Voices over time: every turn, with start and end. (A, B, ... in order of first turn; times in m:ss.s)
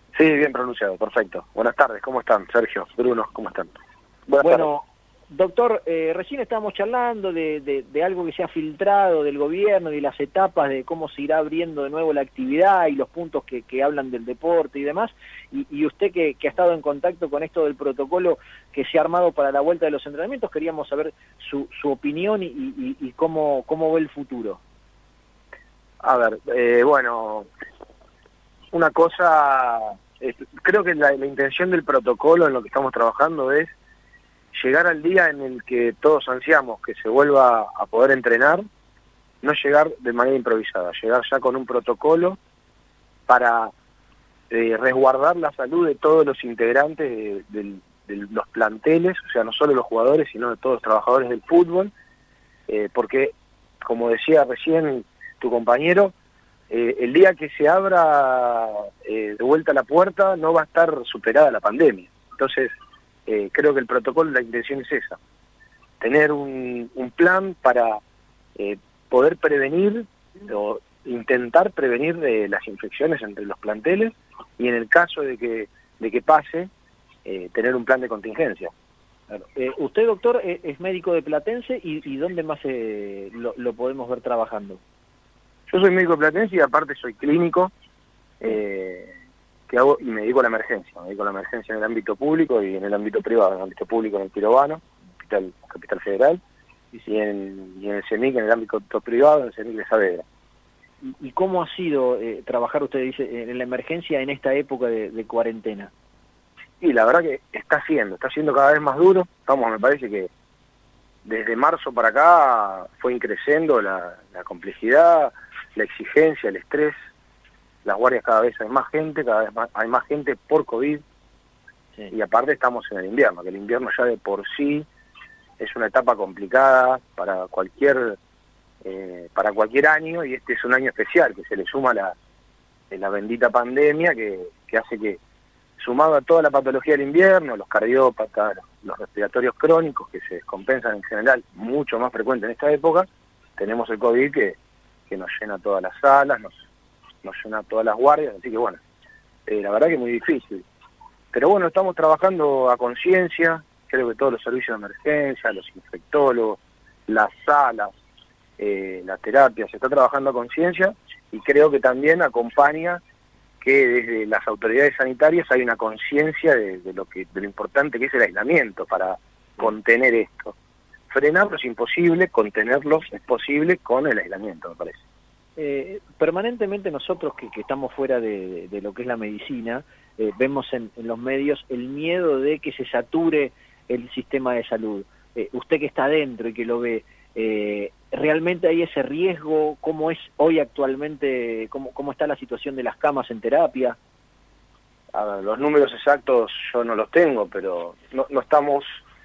0:00.1-0:03.8 A
0:04.3-0:04.7 A
0:04.4-0:24.6 B
0:26.0-0:27.5 A
0:28.7-0:33.7 A
0:34.5-0:38.6 A
0:39.4-0:42.4 A
0:43.3-0:43.7 A
0:44.5-0:51.9 A
0:52.7-0:56.1 A
0:56.7-1:02.7 A
1:03.3-1:05.2 A
1:06.0-1:08.0 A
1:08.6-1:16.7 A
1:17.2-1:18.7 A
1:19.3-1:24.8 B
1:25.7-1:27.7 A
1:28.4-1:29.1 A
1:29.7-1:36.4 A
1:37.1-1:40.2 A
1:41.0-1:45.9 B
1:46.8-1:50.3 A
1:51.2-1:57.0 A
1:57.8-2:01.0 A
2:02.1-2:04.9 A
2:05.6-2:08.2 A
2:08.8-2:12.2 A
2:12.9-2:15.2 A
2:15.8-2:24.6 A
2:25.1-2:26.5 A
2:27.2-2:28.8 A
2:29.5-2:30.6 A
2:31.3-2:37.9 A
2:38.6-2:43.0 A
2:43.6-2:50.6 A
2:51.1-2:55.0 A
2:55.6-3:14.0 B
3:15.1-3:19.0 A